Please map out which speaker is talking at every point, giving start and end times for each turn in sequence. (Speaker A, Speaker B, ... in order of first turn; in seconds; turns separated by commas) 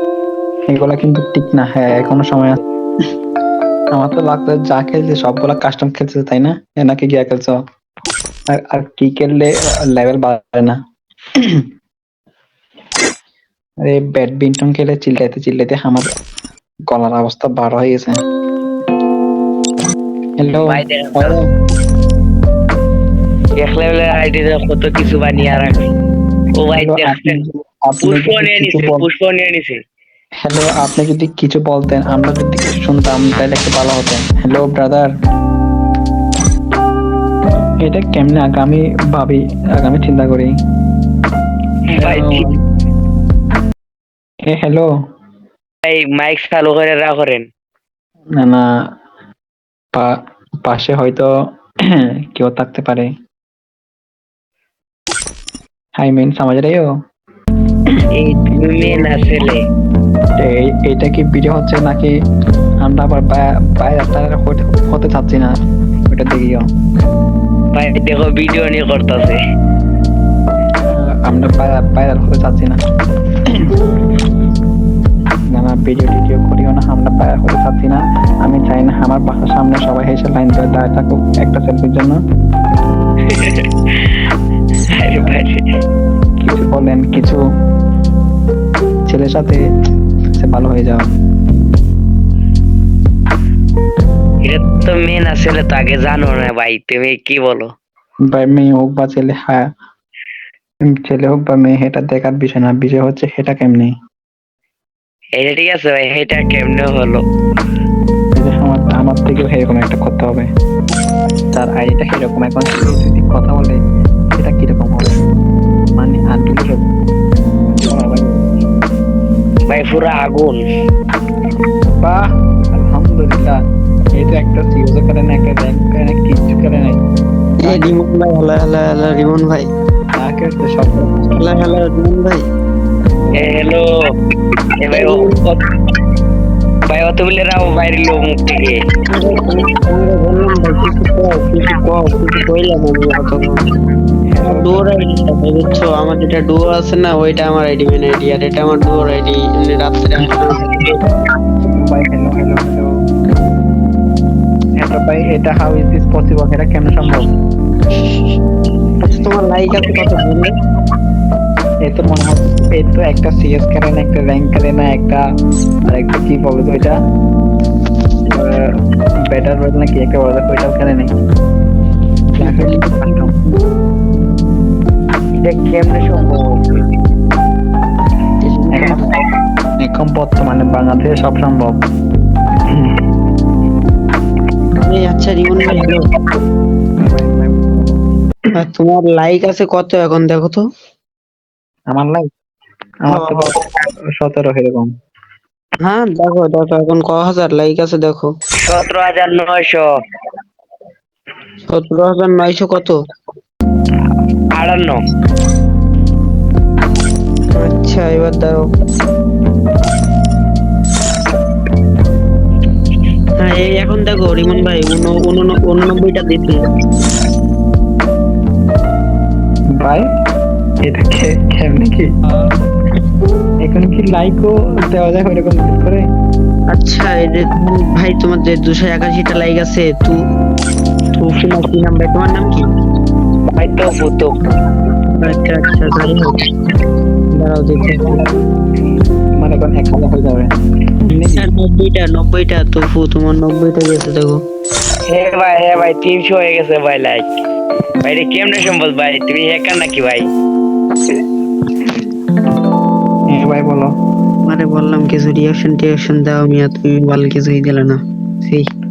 Speaker A: 0.7-2.6, Speaker A: 3.9-7.5, Speaker A: 8.5-10.8, Speaker A: 13.8-16.1, Speaker A: 16.9-18.2, Speaker A: 20.4-21.4, Speaker B: 20.7-21.4, Speaker B: 23.6-25.9, Speaker B: 26.6-27.4, Speaker A: 26.8-29.1, Speaker B: 28.0-29.8, Speaker A: 30.4-35.1, Speaker A: 37.8-40.5, Speaker A: 41.9-42.5, Speaker B: 42.0-42.5, Speaker A: 44.5-44.9, Speaker B: 45.8-47.5, Speaker A: 50.6-51.3, Speaker A: 52.0-53.1, Speaker A: 56.0-56.9, Speaker B: 58.1-59.6, Speaker A: 60.4-62.1, Speaker A: 62.8-65.5, Speaker A: 66.1-66.6, Speaker B: 67.7-69.4, Speaker A: 70.9-72.8, Speaker A: 75.5-82.2, Speaker B: 83.3-84.1, Speaker B: 85.0-85.6, Speaker A: 85.2-85.4, Speaker A: 86.4-87.4, Speaker A: 89.1-89.6, Speaker A: 90.4-91.1, Speaker B: 94.4-97.7, Speaker A: 98.3-99.7, Speaker A: 100.9-103.9, Speaker B: 105.4-107.2, Speaker A: 108.4-110.5, Speaker A: 111.5-113.8, Speaker A: 114.3-115.2, Speaker A: 116.0-116.8, Speaker A: 117.8-118.5, Speaker B: 119.7-120.6, Speaker A: 122.8-123.6, Speaker A: 124.1-127.0, Speaker C: 127.6-129.7, Speaker A: 127.6-127.9, Speaker A: 130.2-131.8, Speaker C: 131.3-132.4, Speaker B: 133.3-133.9, Speaker B: 134.8-135.6, Speaker C: 134.9-135.3, Speaker B: 136.9-138.8, Speaker C: 139.1-143.6, Speaker A: 144.3-144.8, Speaker C: 144.4-151.0, Speaker A: 150.5-150.9, Speaker A: 151.7-152.9, Speaker A: 154.8-157.3, Speaker C: 159.0-160.5, Speaker A: 161.8-165.2, Speaker A: 165.9-167.0, Speaker A: 168.3-168.7, Speaker A: 169.3-171.1, Speaker C: 172.4-173.6, Speaker A: 172.4-173.3, Speaker B: 175.4-176.7, Speaker C: 178.4-179.1, Speaker A: 178.7-179.0, Speaker A: 179.8-181.8, Speaker C: 184.8-186.1, Speaker A: 187.0-188.0, Speaker C: 188.6-190.7, Speaker A: 191.9-192.3, Speaker A: 193.1-193.5, Speaker C: 193.1-193.5, Speaker A: 194.2-194.9, Speaker C: 195.8-198.3, Speaker B: 198.6-199.8, Speaker C: 201.7-203.0, Speaker B: 204.6-205.0, Speaker C: 207.6-208.7, Speaker C: 213.4-216.6, Speaker A: 219.7-220.0, Speaker A: 220.8-222.1, Speaker A: 223.7-226.1, Speaker C: 226.7-230.2, Speaker C: 231.2-232.7, Speaker B: 233.5-234.3, Speaker C: 235.2-236.4, Speaker C: 237.3-238.2, Speaker A: 238.1-238.3, Speaker A: 239.4-240.5, Speaker A: 241.1-241.5, Speaker C: 241.4-244.4, Speaker B: 245.1-247.3, Speaker B: 248.0-250.3, Speaker A: 253.3-253.9, Speaker C: 254.4-258.7